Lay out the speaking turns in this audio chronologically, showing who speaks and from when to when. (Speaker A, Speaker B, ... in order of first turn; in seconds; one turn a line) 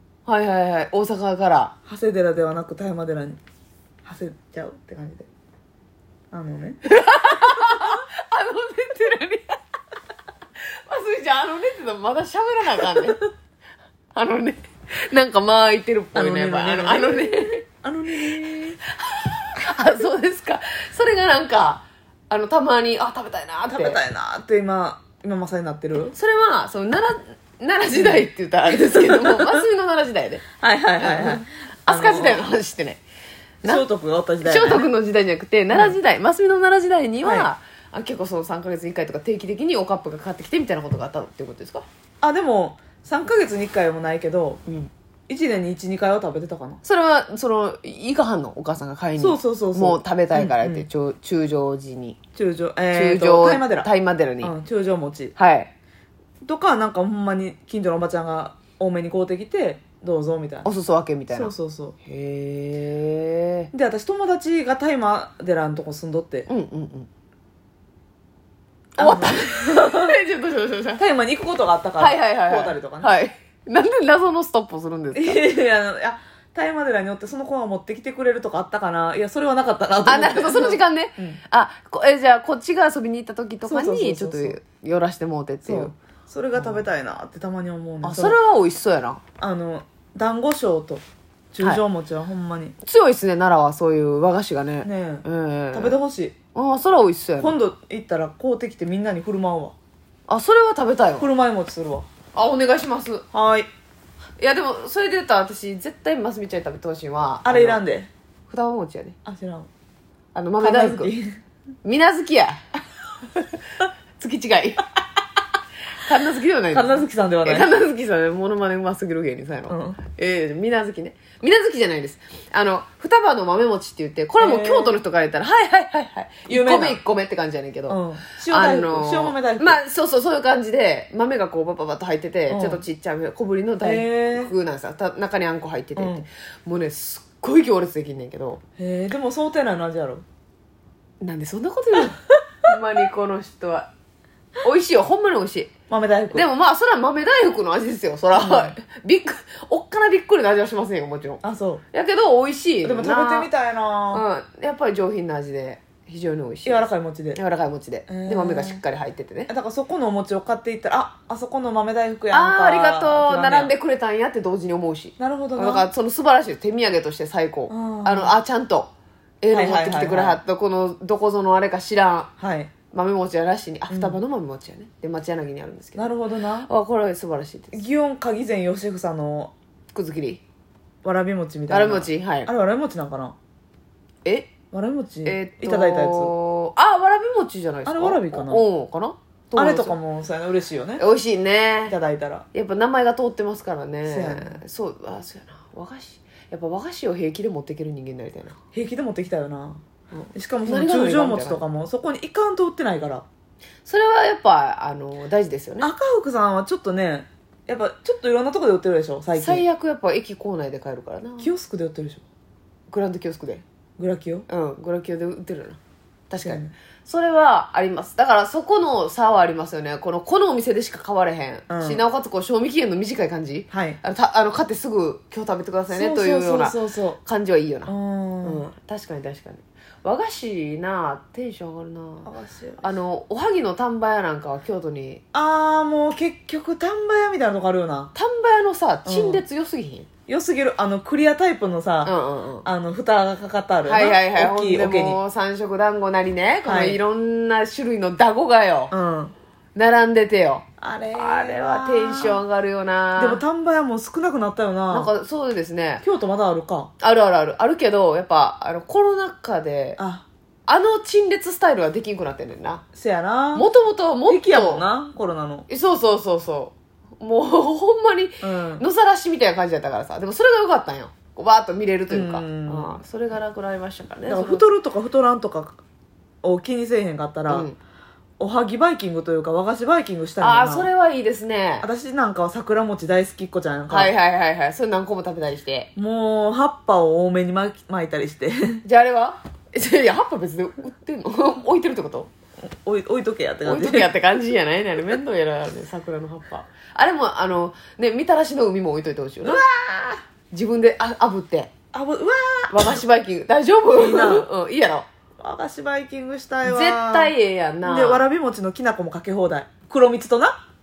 Speaker A: 0.3-1.7
Speaker B: 1.9-3.4
Speaker B: 4.0-5.3
Speaker B: 6.3-6.8
Speaker A: 6.8-9.6
Speaker A: 10.7-13.3
Speaker A: 14.2-24.0
Speaker B: 16.1-18.8
Speaker B: 23.7-26.1
Speaker A: 26.1-30.4
Speaker B: 27.9-29.6
Speaker B: 30.6-32.5
Speaker A: 31.0-33.0
Speaker B: 33.6-34.9
Speaker A: 34.4-41.9
Speaker B: 35.7-36.0
Speaker B: 37.2-37.5
Speaker B: 42.2-44.6
Speaker B: 45.3-46.8
Speaker A: 46.8-52.2
Speaker B: 49.2-50.9
Speaker B: 52.4-53.9
Speaker A: 52.9-54.5
Speaker B: 54.4-55.3
Speaker A: 55.4-55.7
Speaker B: 56.4-60.7
Speaker A: 60.6-63.7
Speaker B: 61.3-62.0
Speaker B: 63.7-66.5
Speaker A: 66.5-67.1
Speaker B: 69.0-70.2
Speaker A: 69.0-71.0
Speaker B: 71.0-73.1
Speaker A: 72.0-75.4
Speaker B: 75.1-81.4
Speaker A: 80.0-86.0
Speaker B: 83.6-84.6
Speaker B: 85.7-88.4
Speaker A: 86.5-86.8
Speaker A: 88.0-89.2
Speaker B: 89.4-92.8
Speaker A: 92.8-96.0
Speaker B: 94.8-96.3
Speaker A: 96.5-97.6
Speaker B: 97.4-99.8
Speaker A: 100.3-101.3
Speaker B: 101.2-102.1
Speaker A: 102.3-103.3
Speaker B: 103.3-103.7
Speaker A: 104.4-107.8
Speaker B: 107.5-108.1
Speaker A: 108.5-109.2
Speaker B: 109.2-109.7
Speaker A: 110.3-111.1
Speaker B: 110.6-111.4
Speaker A: 111.8-112.6
Speaker A: 113.3-114.9
Speaker A: 116.0-138.6
Speaker B: 116.7-117.8
Speaker B: 119.7-120.0
Speaker B: 124.4-125.0
Speaker B: 126.5-127.0
Speaker B: 127.9-129.8
Speaker B: 132.5-132.8
Speaker B: 133.8-134.5
Speaker B: 136.0-136.3
Speaker B: 138.8-140.2
Speaker A: 141.2-143.9
Speaker A: 144.6-145.7
Speaker B: 145.9-146.5
Speaker A: 146.3-153.5
Speaker B: 148.3-148.7
Speaker B: 151.4-151.8
Speaker B: 152.8-154.2
Speaker A: 154.1-159.5
Speaker B: 156.7-157.4
Speaker B: 158.1-158.8
Speaker B: 159.5-163.7
Speaker A: 162.3-168.9
Speaker B: 165.2-165.9
Speaker B: 167.7-168.4
Speaker A: 169.4-172.3
Speaker B: 169.5-170.4
Speaker B: 172.4-172.7
Speaker A: 172.9-176.1
Speaker B: 173.9-174.2
Speaker B: 176.0-176.7
Speaker A: 176.7-177.8
Speaker B: 177.7-179.5
Speaker A: 179.9-180.4
Speaker B: 181.0-183.4
Speaker A: 181.7-182.5
Speaker A: 184.2-184.5
Speaker B: 184.7-186.3
Speaker A: 185.2-190.0
Speaker B: 187.9-188.7
Speaker B: 189.6-191.0
Speaker A: 191.0-192.0
Speaker B: 191.9-192.5
Speaker A: 192.5-198.6
Speaker B: 194.1-194.6
Speaker B: 198.7-199.8
Speaker A: 200.1-201.6
Speaker B: 200.3-203.2
Speaker A: 203.8-205.9
Speaker B: 205.8-209.6
Speaker A: 209.4-211.5
Speaker B: 211.4-212.2
Speaker A: 212.9-213.6
Speaker B: 214.0-214.5
Speaker A: 214.5-215.8
Speaker A: 216.3-232.3
Speaker B: 216.4-216.7
Speaker B: 221.7-222.0
Speaker B: 223.7-224.0
Speaker B: 225.9-227.2
Speaker B: 227.9-228.7
Speaker B: 232.2-232.9
Speaker A: 232.8-235.2
Speaker B: 235.3-238.1
Speaker A: 238.2-240.1
Speaker B: 239.1-239.4
Speaker B: 240.3-242.1
Speaker A: 242.1-242.7
Speaker B: 242.7-245.2
Speaker A: 243.8-248.9
Speaker B: 246.6-247.0
Speaker B: 248.9-249.3
Speaker A: 249.8-253.4
Speaker B: 250.8-252.4
Speaker B: 253.2-255.1
Speaker A: 254.9-256.0
Speaker B: 256.0-256.9
Speaker A: 257.0-260.0
Speaker B: 260.0-260.3
Speaker A: 260.7-262.8
Speaker B: 262.9-263.7
Speaker A: 263.5-264.9
Speaker B: 264.3-265.7
Speaker A: 265.7-274.6
Speaker B: 268.4-268.9
Speaker B: 272.1-272.9
Speaker B: 274.3-275.8
Speaker B: 276.4-277.7
Speaker A: 277.5-277.8
Speaker B: 278.4-280.9
Speaker A: 280.4-281.9
Speaker B: 281.8-284.1
Speaker A: 283.9-285.9
Speaker B: 286.0-288.8
Speaker A: 288.8-292.3
Speaker B: 292.6-294.1
Speaker A: 293.6-299.6
Speaker B: 299.4-300.2
Speaker A: 300.5-301.7
Speaker B: 301.9-303.0
Speaker A: 302.7-305.1
Speaker B: 303.9-304.5
Speaker B: 305.4-307.3
Speaker A: 306.6-308.2
Speaker B: 307.8-310.6